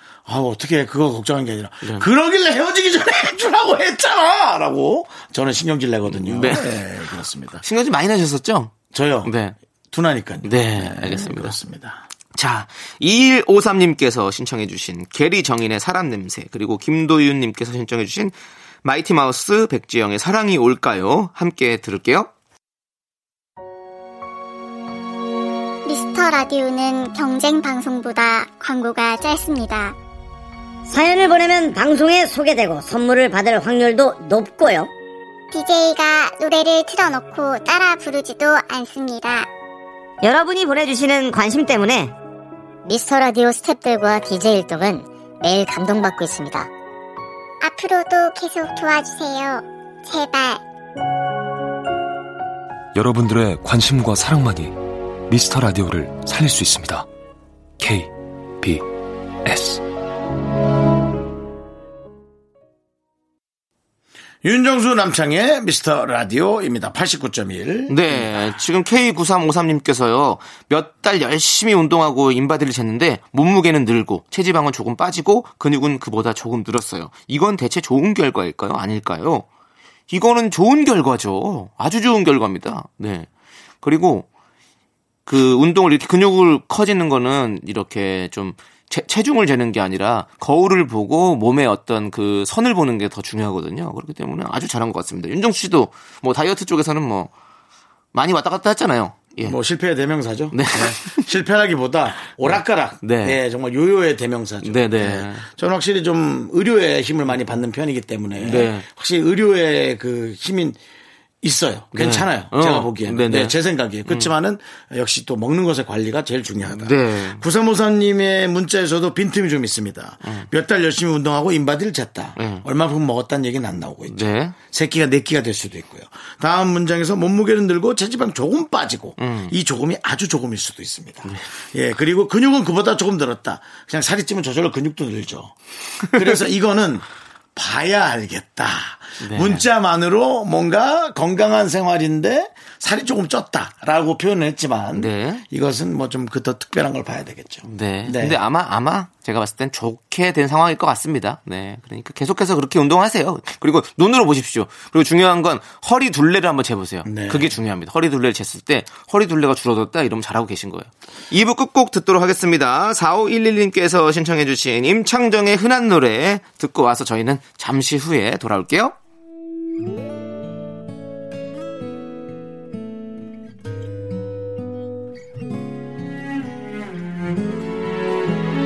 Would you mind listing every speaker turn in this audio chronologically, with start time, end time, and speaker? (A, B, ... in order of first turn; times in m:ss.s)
0:00.3-0:07.6 A
0:06.1-0:06.8 B
0:07.6-0:09.6 B
0:08.9-0:09.3 A
0:09.9-0:12.0 A
0:10.4-0:11.6 B
0:12.3-0:22.3 B
0:25.8-0:29.9 C
0:30.9-0:34.9 D
0:35.5-0:39.5 C
0:40.2-0:42.1 D
0:42.9-0:46.7 C
0:47.6-0:50.6 C
0:52.9-0:54.7 E
0:55.3-0:57.1 E
0:57.8-0:58.8 E
0:59.4-0:59.8 E
1:04.4-1:08.6 A
1:07.9-1:19.4 B
1:20.1-1:23.3 B
1:23.8-1:24.3 B
1:25.2-1:37.3 B
1:38.1-1:39.6 B
1:39.4-1:50.8 A
1:40.5-1:41.3 B
1:42.4-1:43.4 B
1:44.6-1:45.5 B
1:48.4-1:48.8 B
1:51.4-2:15.5 A
1:51.9-1:53.6 B
1:56.6-1:57.4 B
2:02.4-2:02.6 B
2:04.1-2:04.5 B
2:09.2-2:09.5 B
2:16.1-2:28.4 A
2:19.2-2:19.7 B
2:24.9-2:25.4 B
2:27.6-2:49.0 B
2:37.0-2:37.6 A